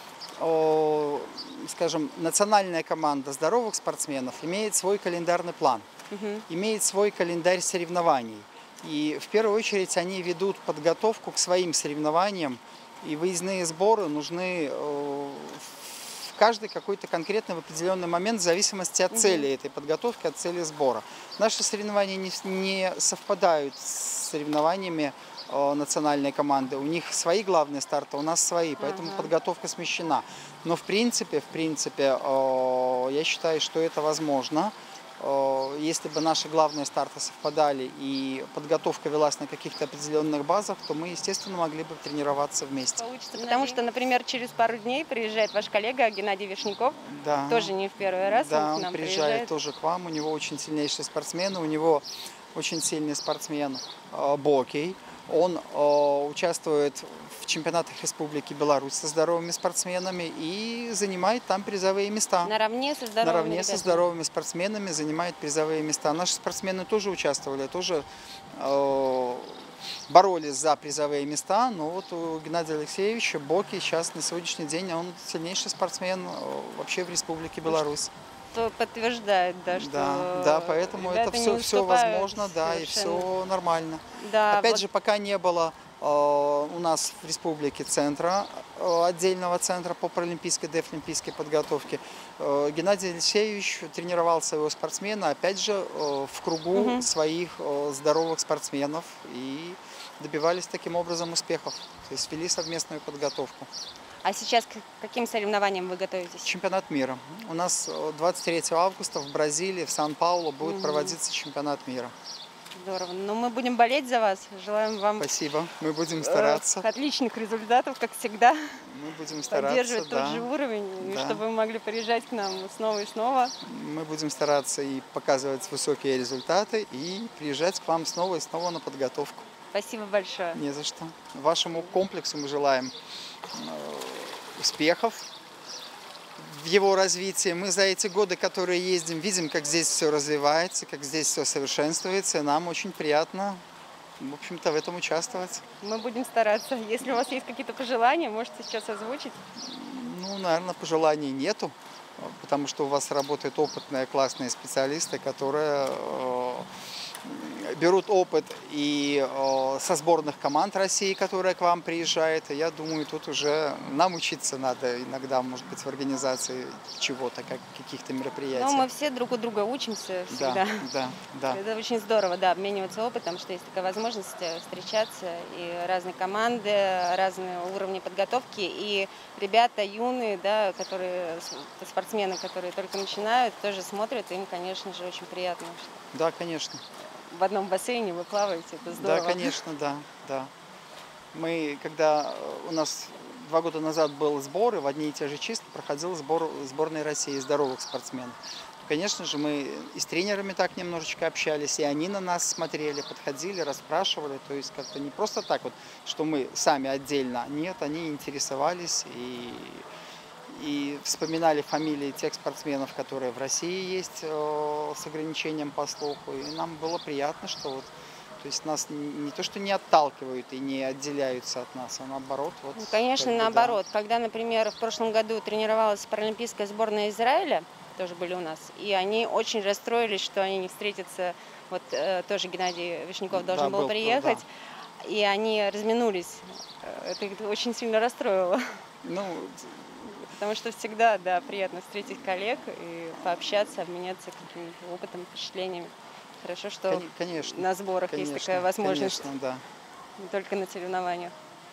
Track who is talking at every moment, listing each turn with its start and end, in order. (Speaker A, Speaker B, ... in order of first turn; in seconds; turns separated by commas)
Speaker A: 0.3-5.8, Speaker B: 6.1-6.4, Speaker A: 6.5-43.8, Speaker B: 19.1-19.5, Speaker B: 28.8-29.3, Speaker B: 43.0-49.5, Speaker A: 47.0-62.5, Speaker B: 62.4-64.1, Speaker A: 63.2-78.1, Speaker B: 78.5-83.3, Speaker A: 79.7-103.7, Speaker B: 84.1-84.8, Speaker B: 96.7-97.1, Speaker B: 104.2-106.5, Speaker A: 106.4-112.1, Speaker B: 110.6-111.2, Speaker B: 112.8-115.3, Speaker A: 115.2-116.8, Speaker B: 116.1-118.8, Speaker A: 118.8-121.4, Speaker B: 119.5-123.5, Speaker A: 123.6-129.5, Speaker B: 129.7-130.6, Speaker A: 130.5-132.9, Speaker A: 133.5-135.3, Speaker A: 136.4-143.6, Speaker A: 144.2-145.6, Speaker B: 145.8-149.4, Speaker A: 149.6-156.7, Speaker A: 157.2-168.9, Speaker B: 168.5-170.9, Speaker A: 170.3-171.6, Speaker B: 171.5-186.0, Speaker A: 186.1-186.8, Speaker B: 187.3-189.6, Speaker A: 188.9-190.5, Speaker A: 191.3-209.8, Speaker A: 210.5-223.8, Speaker B: 222.8-234.5, Speaker A: 233.3-234.4, Speaker B: 235.0-238.6, Speaker A: 239.0-239.8, Speaker B: 240.2-249.3, Speaker A: 246.9-249.6, Speaker B: 250.2-251.3